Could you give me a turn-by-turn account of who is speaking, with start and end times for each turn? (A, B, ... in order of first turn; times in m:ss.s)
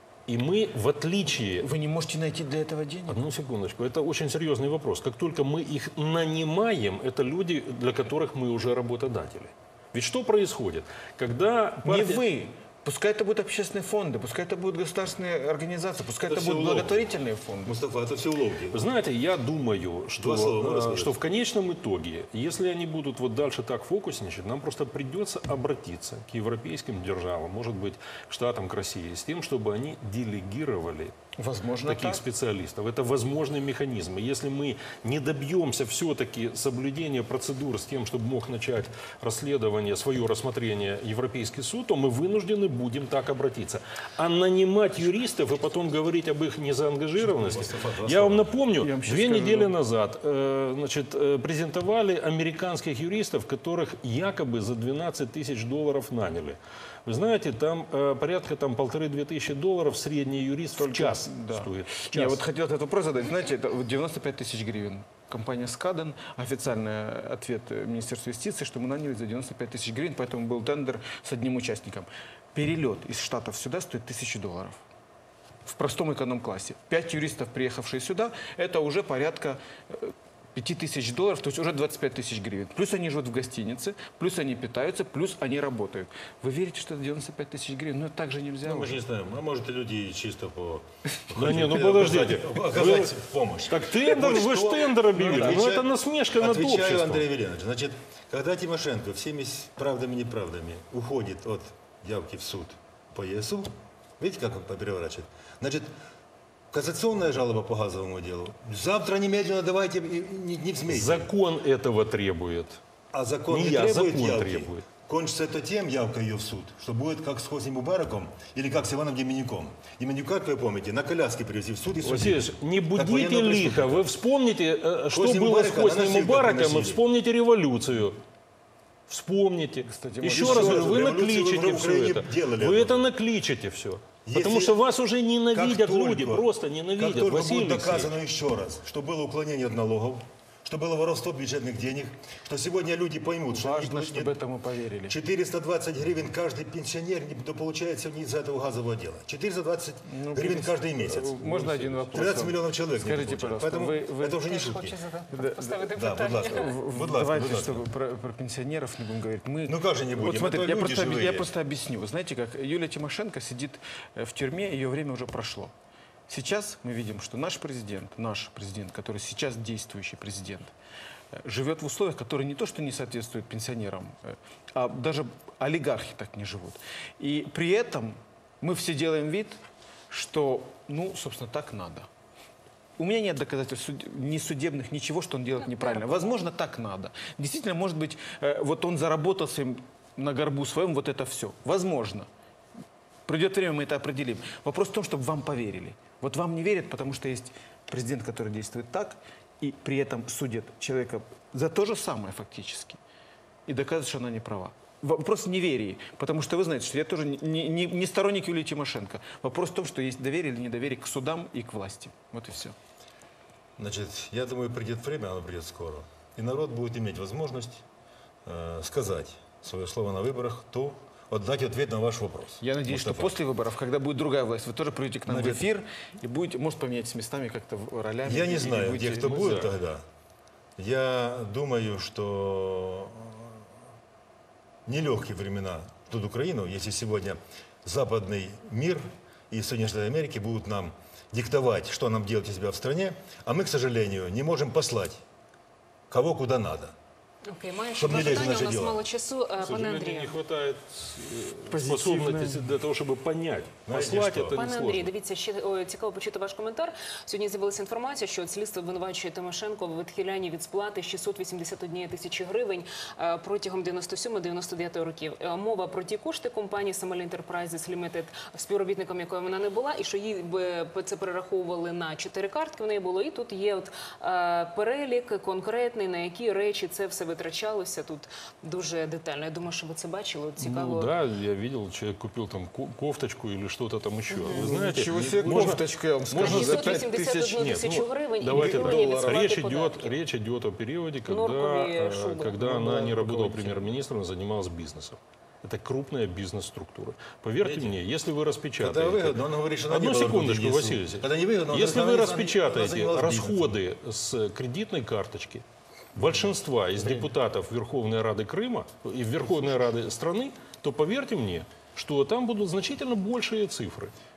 0:00.3-0:01.7 A
0:01.6-0:03.2 B
0:03.1-0:12.2 A
0:11.8-0:17.7 B
0:16.2-0:17.0 C
0:17.6-0:18.8 C
0:18.7-0:31.1 A
0:20.2-0:21.2 C
0:31.4-0:32.2 B
0:31.8-1:02.4 A
0:47.2-0:48.5 C
0:48.8-0:49.7 B
1:00.8-1:14.8 B
1:15.6-1:29.0 B
1:28.6-1:45.9 C
1:31.3-1:33.2 A
1:33.7-1:37.2 A
1:46.7-1:51.3 C
1:50.9-1:52.8 A
1:53.1-2:04.0 C
1:53.5-1:54.8 A
2:02.0-2:08.2 A
2:05.1-2:07.0 C
2:09.1-2:18.1 A
2:09.8-2:11.0 B
2:10.2-2:13.0 C
2:14.2-2:14.8 C
2:15.5-2:24.4 C
2:23.5-2:25.1 B
2:25.1-2:31.4 C
2:30.1-2:34.5 B
2:31.4-2:32.0 A
2:32.1-2:35.0 C
2:34.4-2:36.7 D
2:35.3-2:45.7 B
2:35.9-2:37.8 C
2:39.7-2:41.5 C
2:46.3-2:50.7 B
2:51.3-2:59.6 B
3:00.1-3:02.1 B
3:03.0-3:12.3 B
3:05.6-3:06.4 D
3:13.2-3:23.0 B
3:23.6-3:32.8 B
3:33.8-3:37.8 C
3:38.4-3:43.4 C
3:42.6-3:49.5 B
3:45.2-3:45.6 C
3:48.2-3:50.0 C
3:49.2-3:49.7 A
3:50.8-3:53.5 C
3:54.8-4:05.2 C
4:06.1-4:06.9 C
4:07.4-4:10.3 D
4:08.0-4:09.0 C
4:09.6-4:15.1 A
4:11.7-4:12.7 B
4:13.8-4:14.6 C
4:14.5-4:41.1 D
4:40.6-5:05.6 A
4:44.3-4:44.7 D
4:44.6-4:47.4 B
4:46.4-4:50.2 D
4:48.5-4:49.4 B
4:51.3-4:52.6 D
4:52.6-4:53.9 B
4:57.6-4:58.0 C
4:58.8-5:03.7 C
5:06.1-5:14.1 A